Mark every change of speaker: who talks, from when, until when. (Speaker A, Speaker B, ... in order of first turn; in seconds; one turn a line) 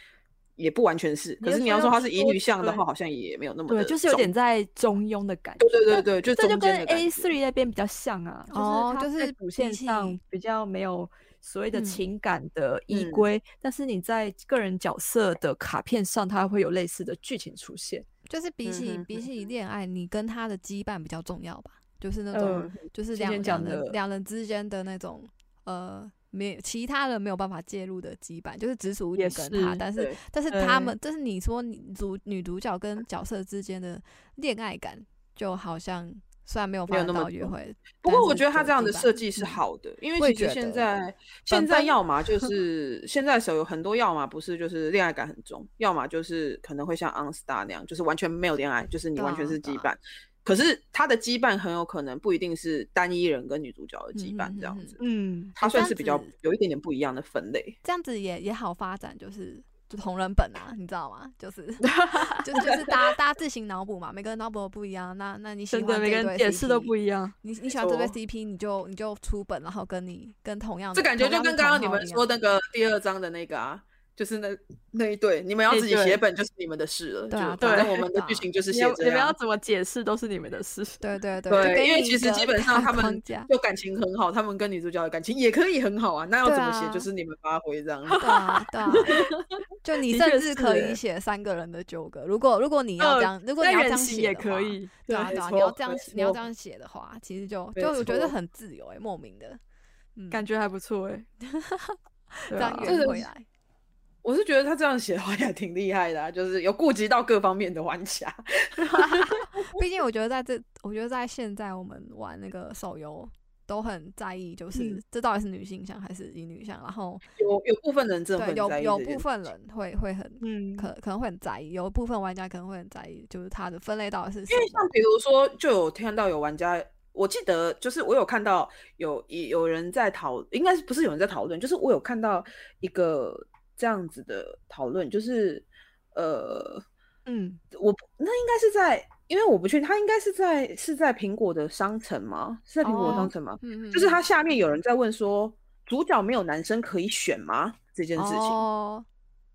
Speaker A: 0.6-4.3
Speaker B: 1.4-2.8
Speaker B: 3.7-18.1
Speaker A: 5.6-7.3
Speaker C: 8.5-10.2
Speaker C: 11.7-12.0
Speaker A: 12.9-13.3
Speaker C: 18.3-39.6
Speaker A: 18.6-19.3
Speaker B: 22.3-24.0
Speaker B: 29.2-29.8
Speaker B: 30.5-30.9
Speaker A: 36.9-55.0
Speaker C: 40.2-40.9
Speaker C: 41.5-42.5
Speaker C: 49.2-49.9
Speaker C: 54.1-55.0
Speaker B: 55.0-55.6
Speaker A: 55.6-57.8
Speaker C: 55.6-56.3
Speaker C: 57.8-72.2
Speaker B: 61.8-62.4
Speaker A: 62.5-63.1
Speaker B: 65.7-67.3
Speaker A: 67.8-68.1
Speaker A: 70.9-79.4
Speaker B: 75.7-76.2
Speaker C: 77.3-78.5
Speaker B: 77.6-77.9
Speaker B: 78.7-81.0
Speaker C: 81.0-83.5
Speaker A: 81.5-89.2
Speaker C: 86.4-87.1
Speaker B: 88.1-89.4
Speaker C: 88.2-89.3
Speaker C: 89.8-99.6
Speaker B: 90.0-91.0
Speaker B: 93.0-95.4
Speaker A: 95.2-96.4
Speaker A: 97.8-98.3
Speaker C: 100.2-100.5
Speaker B: 100.3-101.3
Speaker C: 101.4-102.0
Speaker B: 102.5-103.1
Speaker C: 102.5-103.5
Speaker A: 102.8-103.3
Speaker A: 104.2-109.7
Speaker C: 108.9-117.2
Speaker B: 114.8-115.0
Speaker A: 117.4-119.2
Speaker C: 118.4-124.9
Speaker B: 120.4-120.9
Speaker A: 124.5-136.8
Speaker B: 137.3-137.6
Speaker A: 137.7-148.6
Speaker C: 142.8-144.2
Speaker C: 148.2-149.1